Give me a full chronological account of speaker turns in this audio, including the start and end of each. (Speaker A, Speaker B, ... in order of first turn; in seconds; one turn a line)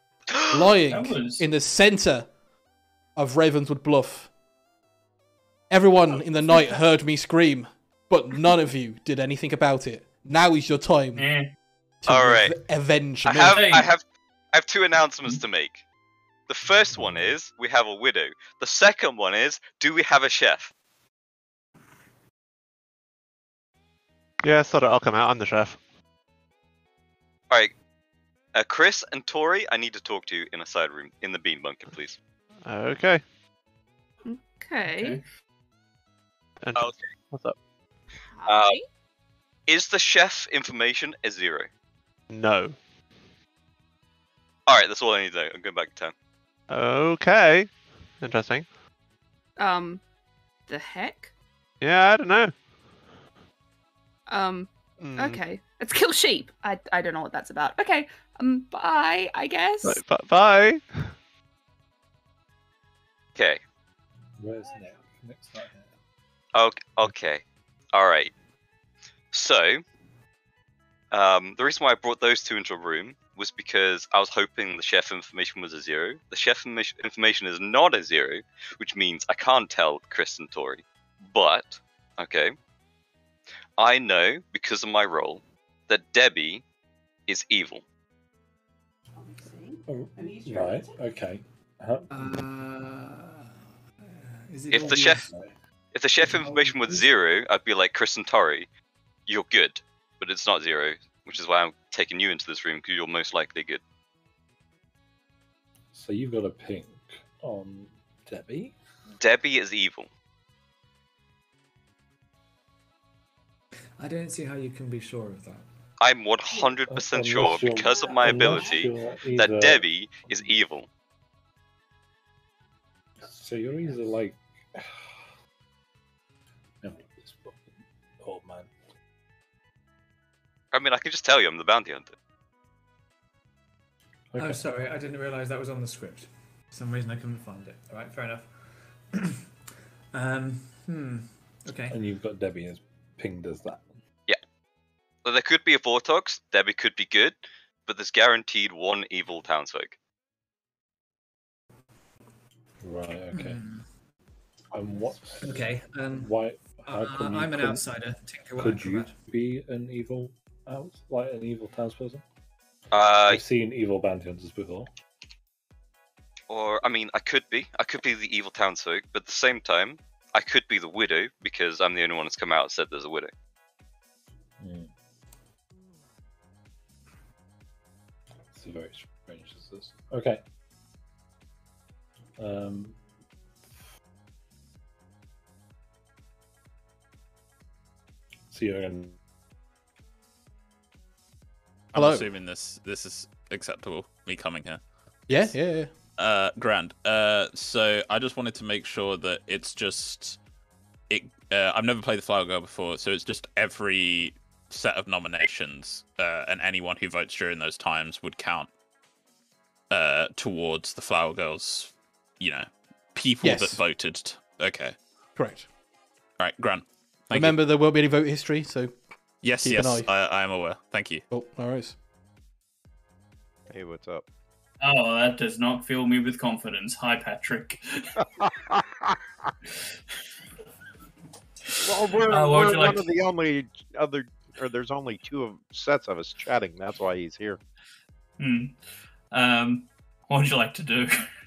Speaker A: 0.5-2.3
Speaker B: 0.9-1.4
Speaker A: 3.2-4.3
Speaker A: 5.7-11.3
Speaker B: 11.2-11.5
Speaker A: 12.0-13.6
Speaker C: 12.1-12.6
Speaker C: 13.2-15.8
Speaker B: 13.5-13.9
Speaker C: 16.5-20.7
Speaker D: 24.4-25.8
Speaker C: 28.5-32.2
Speaker D: 32.6-33.2
Speaker E: 34.2-35.2
Speaker D: 36.6-37.6
Speaker C: 36.8-37.1
Speaker E: 38.3-38.9
Speaker C: 38.5-38.8
Speaker C: 39.7-41.7
Speaker D: 42.3-42.8
Speaker C: 44.7-46.1
Speaker D: 46.7-48.7
Speaker E: 49.6-50.0
Speaker E: 50.7-51.3
Speaker D: 51.8-52.5
Speaker E: 54.3-60.0
Speaker D: 55.0-55.4
Speaker D: 59.8-61.1
Speaker C: 63.4-63.6
Speaker F: 64.4-65.9
Speaker C: 66.5-67.4
Speaker C: 67.9-68.3
Speaker C: 69.3-69.8
Speaker C: 71.1-82.5
Speaker C: 83.8-86.6
Speaker C: 87.3-87.8
Speaker F: 89.9-92.1
Speaker G: 92.1-95.4
Speaker C: 94.7-95.3
Speaker C: 95.9-98.7
Speaker G: 96.2-97.1
Speaker C: 99.3-103.8
Speaker F: 105.9-108.8
Speaker C: 109.2-110.1
Speaker G: 114.0-115.7
Speaker C: 116.0-120.9
Speaker F: 116.9-119.8
Speaker F: 123.2-124.9
Speaker F: 126.8-128.7
Speaker C: 130.7-132.1
Speaker F: 134.3-134.7
Speaker G: 134.4-139.3
Speaker G: 140.1-142.0
Speaker F: 141.9-143.9
Speaker C: 145.2-150.0
Speaker F: 152.8-153.6
Speaker G: 153.3-153.9
Speaker F: 154.7-158.0
Speaker G: 155.4-159.2
Speaker F: 158.6-162.2
Speaker C: 162.9-163.4
Speaker F: 163.3-164.9
Speaker C: 166.5-173.3
Speaker F: 174.6-174.9
Speaker F: 178.5-180.4
Speaker F: 182.4-183.0
Speaker F: 188.5-189.2
Speaker H: 191.9-195.6
Speaker A: 191.9-192.3
Speaker A: 195.3-195.9
Speaker H: 196.2-200.4
Speaker H: 201.1-208.7
Speaker H: 209.9-214.9
Speaker A: 213.4-213.8
Speaker A: 215.4-215.7
Speaker H: 216.4-217.6
Speaker A: 217.3-218.9
Speaker H: 219.4-221.2
Speaker A: 219.6-220.1
Speaker A: 221.3-222.0
Speaker I: 223.7-224.2
Speaker B: 224.8-228.0
Speaker I: 228.4-229.2
Speaker I: 231.8-237.6
Speaker B: 232.3-233.1
Speaker B: 238.4-238.8
Speaker B: 239.3-241.2